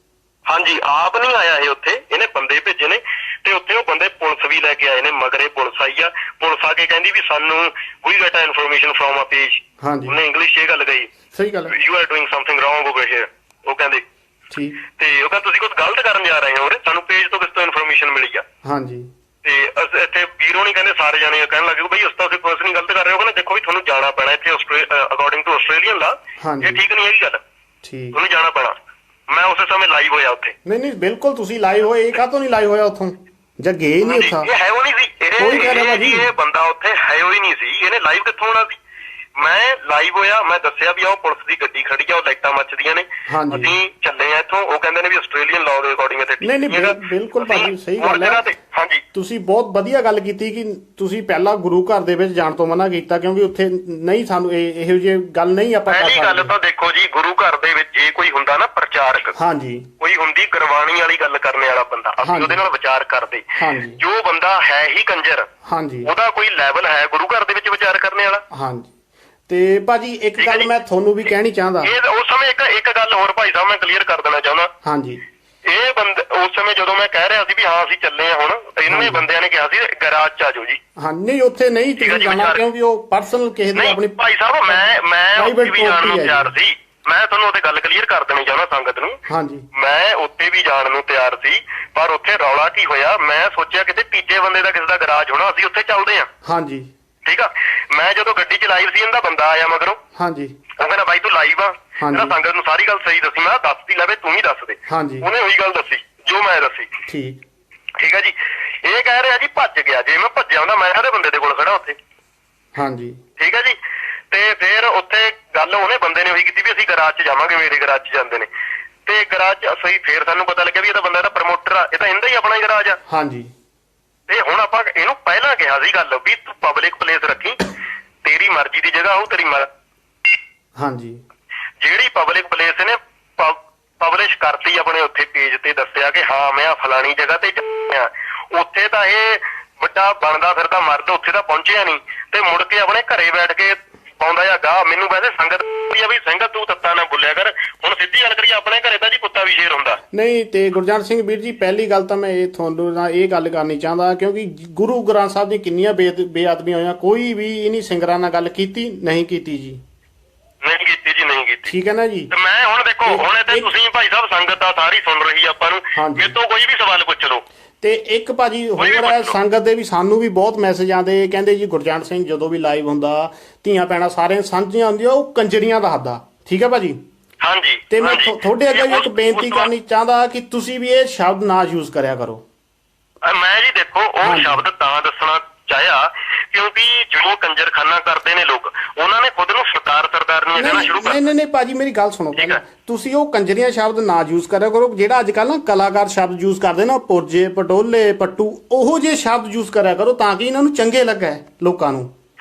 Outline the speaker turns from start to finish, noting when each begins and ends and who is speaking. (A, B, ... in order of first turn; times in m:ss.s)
0:00.5-0:11.1 A
0:09.8-0:10.2 B
0:11.3-0:11.8 B
0:11.7-0:14.0 A
0:14.5-0:14.8 B
0:15.0-0:18.4 A
0:18.6-0:19.1 B
0:19.4-0:27.4 A
0:26.4-0:26.8 B
0:27.8-0:28.2 B
0:28.1-0:28.8 A
0:29.3-0:30.6 A
0:30.7-0:34.5 B
0:34.0-0:38.8 A
0:35.4-0:36.3 B
0:39.4-0:49.0 A
0:43.3-0:43.8 B
0:46.4-0:48.5 B
0:49.1-0:56.5 B
0:55.9-0:59.4 A
0:59.4-0:59.9 B
1:00.0-1:03.5 A
1:02.2-1:02.6 B
1:03.6-1:04.0 B
1:04.0-1:05.5 A
1:05.7-1:06.1 B
1:06.0-1:08.4 A
1:08.5-1:08.9 B
1:09.5-1:11.9 B
1:10.4-1:10.7 A
1:11.8-1:14.7 A
1:14.8-1:15.2 B
1:15.7-1:20.8 A
1:18.9-1:19.3 B
1:21.0-1:26.5 B
1:22.0-1:22.6 A
1:23.8-1:29.2 A
1:29.3-1:29.6 B
1:29.7-1:36.3 A
1:36.4-1:36.9 B
1:37.2-1:40.0 A
1:40.2-1:40.6 B
1:40.8-1:46.9 A
1:42.0-1:42.4 B
1:44.9-1:45.3 B
1:47.1-1:47.4 B
1:48.0-1:52.0 A
1:52.8-1:53.2 B
1:53.4-1:53.8 A
1:54.3-1:58.5 A
1:59.1-2:03.0 A
2:03.1-2:03.5 B
2:04.3-2:07.6 A
2:08.2-2:09.7 A
2:10.8-2:11.2 B
2:11.8-2:30.0 A
2:30.1-2:39.8 B
2:40.6-2:41.8 A
2:41.7-2:42.3 B
2:42.3-2:47.4 A
2:43.0-2:43.7 B
2:46.0-2:46.3 B
2:47.8-2:57.0 B
2:48.8-2:49.4 A
2:57.4-2:59.7 A
2:57.9-3:02.4 B
3:03.2-3:11.3 A
3:04.2-3:04.6 B
3:10.6-3:22.1 B
3:12.4-3:12.6 A